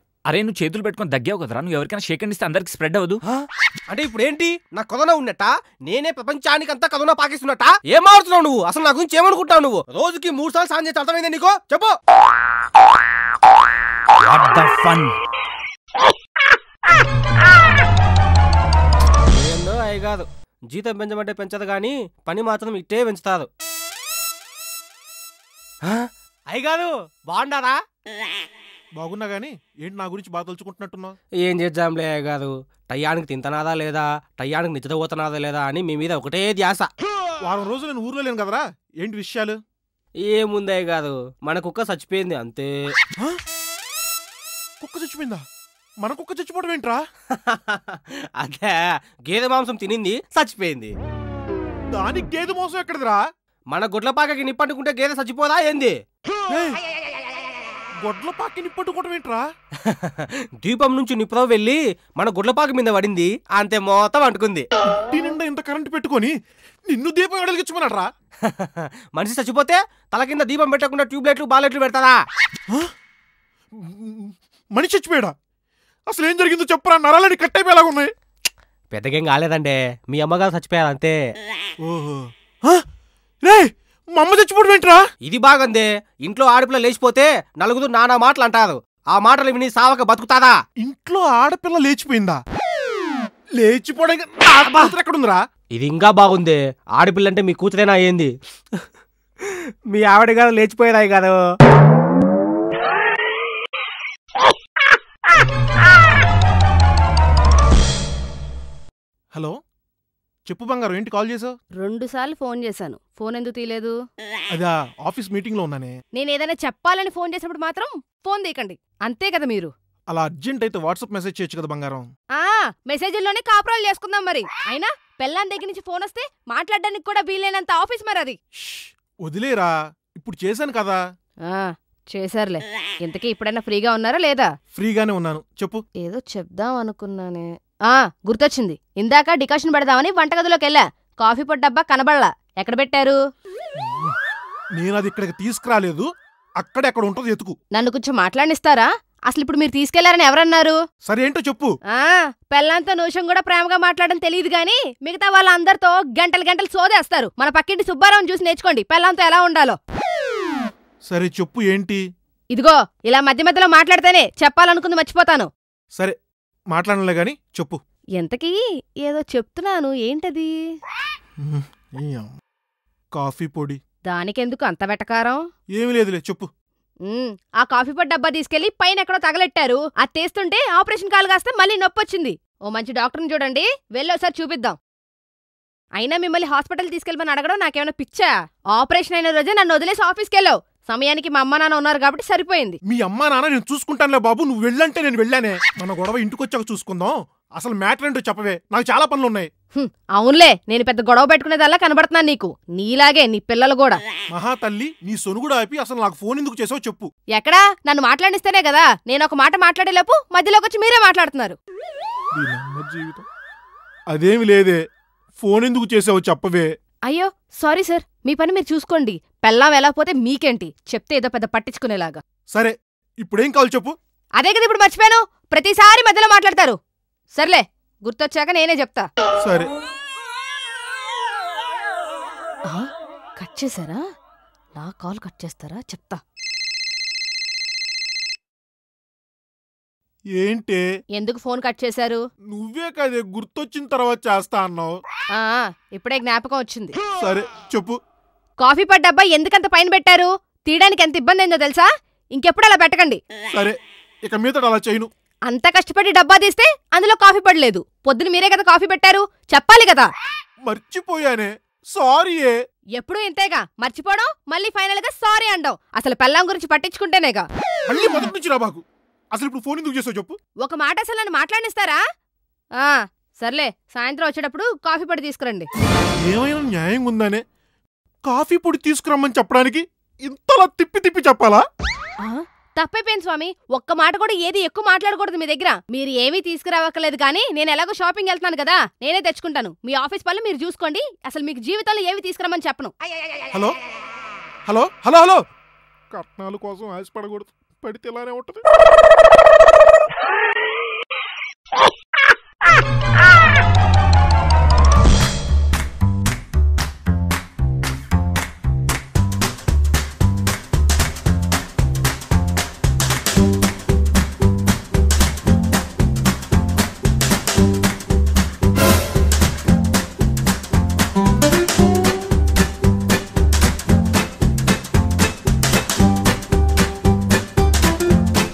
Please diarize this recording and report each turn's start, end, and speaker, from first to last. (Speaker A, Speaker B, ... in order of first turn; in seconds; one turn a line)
Speaker A: 0.3-3.2
Speaker B: 3.3-11.9
Speaker A: 14.2-15.1
Speaker B: 19.3-23.5
Speaker B: 25.8-27.8
Speaker C: 29.0-31.2
Speaker B: 31.4-36.9
Speaker C: 37.4-39.6
Speaker B: 40.2-42.7
Speaker C: 44.8-45.4
Speaker C: 46.0-47.0
Speaker B: 47.3-48.8
Speaker B: 49.3-50.9
Speaker C: 51.9-53.2
Speaker B: 53.7-55.9
Speaker C: 56.5-56.8
Speaker C: 58.0-59.5
Speaker B: 59.8-64.6
Speaker C: 65.0-66.3
Speaker C: 66.9-68.1
Speaker B: 68.4-72.2
Speaker C: 73.8-75.3
Speaker C: 76.1-78.1
Speaker B: 78.9-81.1
Speaker C: 81.8-82.8
Speaker C: 83.4-85.0
Speaker B: 85.2-90.6
Speaker C: 90.8-92.4
Speaker C: 93.6-95.4
Speaker B: 94.5-95.0
Speaker B: 95.7-98.8
Speaker B: 99.4-101.4
Speaker C: 110.5-111.5
Speaker D: 111.8-113.9
Speaker C: 114.5-115.9
Speaker D: 116.1-119.7
Speaker C: 120.1-122.1
Speaker D: 122.3-128.4
Speaker C: 128.6-131.0
Speaker D: 131.5-134.5
Speaker C: 134.7-135.8
Speaker D: 136.0-143.2
Speaker C: 143.8-144.2
Speaker C: 144.8-146.1
Speaker C: 146.6-147.6
Speaker D: 147.8-150.8
Speaker C: 151.1-151.7
Speaker D: 151.9-159.8
Speaker C: 161.1-162.0
Speaker D: 162.5-165.5
Speaker C: 166.7-167.8
Speaker D: 168.2-170.5
Speaker C: 171.4-172.3
Speaker C: 173.1-173.8
Speaker D: 174.1-175.4
Speaker C: 175.8-176.5
Speaker D: 177.1-184.8
Speaker D: 186.0-192.8
Speaker C: 192.9-199.5
Speaker D: 199.8-204.0
Speaker C: 204.3-207.1
Speaker D: 207.4-211.6
Speaker C: 212.3-213.2
Speaker C: 214.1-214.8
Speaker C: 215.4-216.7
Speaker D: 217.1-222.2
Speaker C: 222.5-223.9
Speaker D: 224.4-226.8
Speaker D: 227.3-229.1
Speaker C: 229.4-229.7
Speaker D: 233.4-234.0
Speaker D: 234.8-236.2
Speaker C: 240.4-240.8
Speaker D: 241.2-242.2
Speaker C: 242.5-245.0
Speaker D: 245.3-247.0
Speaker C: 247.2-248.0
Speaker D: 248.6-253.2
Speaker C: 253.5-255.1
Speaker D: 255.5-260.1
Speaker C: 260.6-262.5
Speaker D: 263.0-267.5
Speaker C: 267.9-268.8
Speaker C: 269.3-270.4
Speaker D: 270.6-272.0
Speaker D: 272.8-275.7
Speaker C: 276.2-277.4
Speaker C: 278.2-281.6
Speaker D: 282.2-292.9
Speaker C: 294.6-295.4
Speaker C: 296.1-298.6